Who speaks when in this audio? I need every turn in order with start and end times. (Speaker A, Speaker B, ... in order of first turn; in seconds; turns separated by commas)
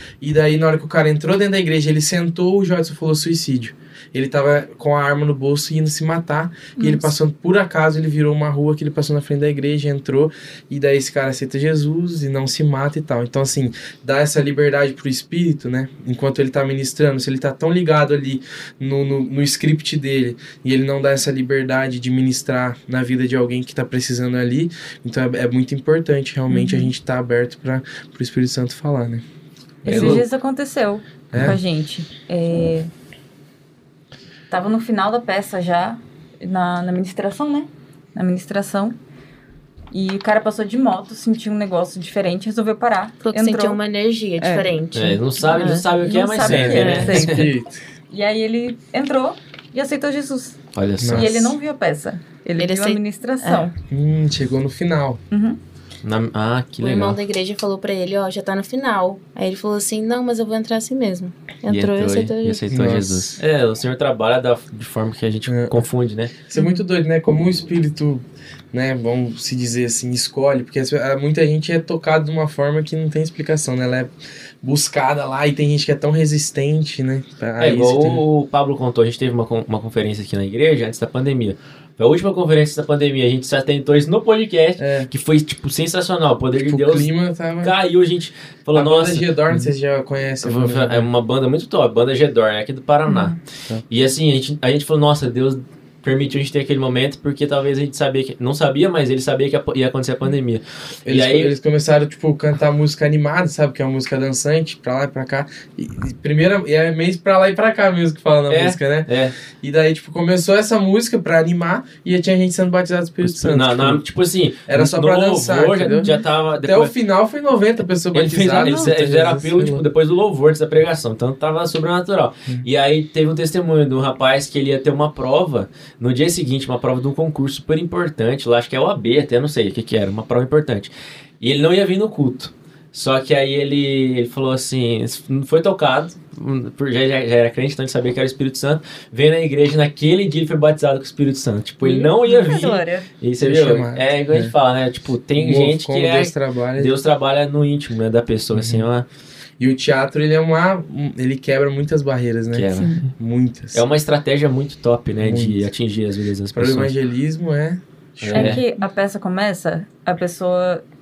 Speaker A: 0.2-29.2, Speaker B: 6.8-7.1, Speaker B: 26.5-26.9, Speaker A: 29.8-30.2, Speaker B: 29.8-32.9, Speaker C: 29.8-30.2, Speaker A: 31.3-31.6, Speaker B: 34.5-39.0, Speaker B: 39.9-43.8, Speaker D: 43.2-45.9, Speaker B: 44.4-44.7, Speaker C: 44.9-47.5, Speaker B: 45.4-47.5, Speaker A: 46.4-47.8, Speaker B: 48.1-50.6, Speaker C: 50.7-51.5, Speaker A: 51.0-51.5, Speaker B: 51.1-53.7, Speaker D: 52.6-53.7, Speaker A: 53.9-55.2, Speaker B: 55.3-55.6, Speaker C: 56.0-57.2, Speaker D: 56.8-62.6, Speaker C: 61.7-66.3, Speaker A: 62.7-63.4, Speaker A: 65.5-65.9, Speaker A: 66.4-78.2, Speaker B: 66.5-66.8, Speaker C: 77.6-87.1, Speaker A: 84.8-85.1, Speaker A: 86.5-87.7, Speaker C: 87.6-89.7, Speaker A: 88.7-91.1, Speaker C: 90.4-93.4, Speaker B: 93.0-93.4, Speaker C: 93.9-101.5, Speaker A: 101.0-114.0, Speaker C: 108.5-109.3, Speaker C: 113.2-116.9, Speaker A: 114.7-119.8, Speaker C: 118.1-149.1, Speaker B: 118.6-118.9, Speaker B: 141.8-143.1, Speaker A: 143.4-144.5, Speaker A: 145.3-147.0, Speaker A: 148.5-148.9, Speaker A: 149.6-153.8, Speaker C: 152.5-153.1, Speaker B: 152.7-153.1, Speaker C: 153.7-156.9, Speaker A: 155.2-155.7, Speaker A: 156.5-158.6, Speaker C: 158.2-158.6, Speaker B: 158.3-160.8